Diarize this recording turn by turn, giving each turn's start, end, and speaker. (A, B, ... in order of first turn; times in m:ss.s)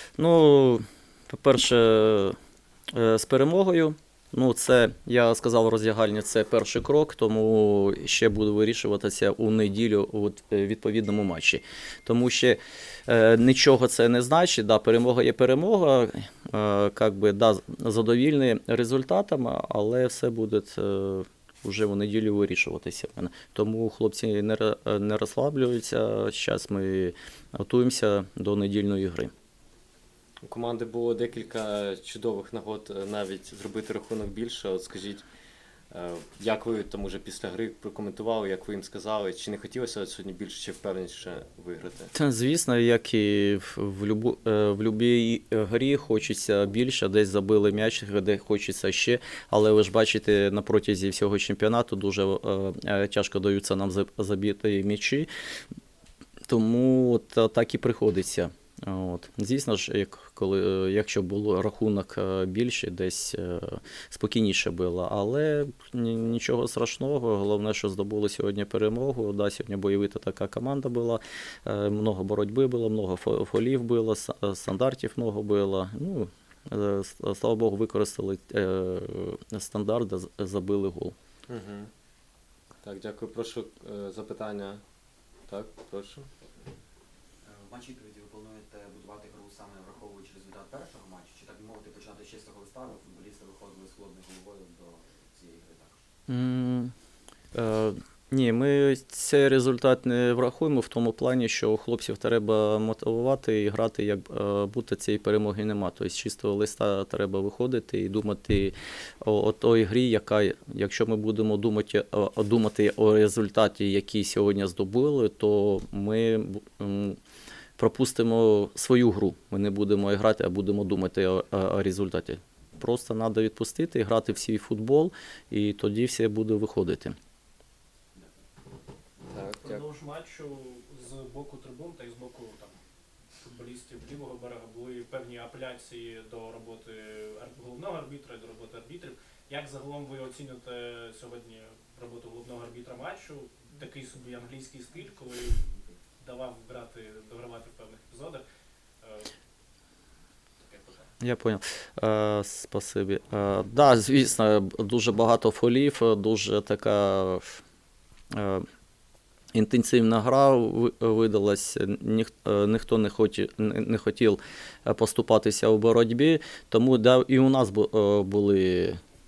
0:00.2-0:02.3 A
0:02.9-0:29.3 A
0:30.4-0:35.2 B
0:35.9-0:42.1 B
0:42.1-0:55.3 A
0:56.5-1:21.1 A
1:21.5-1:21.9 B
1:22.8-1:24.8 B
1:25.5-1:26.2 B
1:27.4-1:36.1 C
1:36.3-1:36.9 A
1:37.5-1:57.2 A
1:57.8-2:07.1 A
2:09.3-2:09.8 B
2:09.5-2:12.8 D
2:13.4-2:25.6 D
2:26.2-2:28.4 D
2:29.0-2:29.3 D
2:30.6-2:31.1 D
2:31.2-2:37.6 A
2:38.3-2:38.6 A
2:39.5-2:49.0 A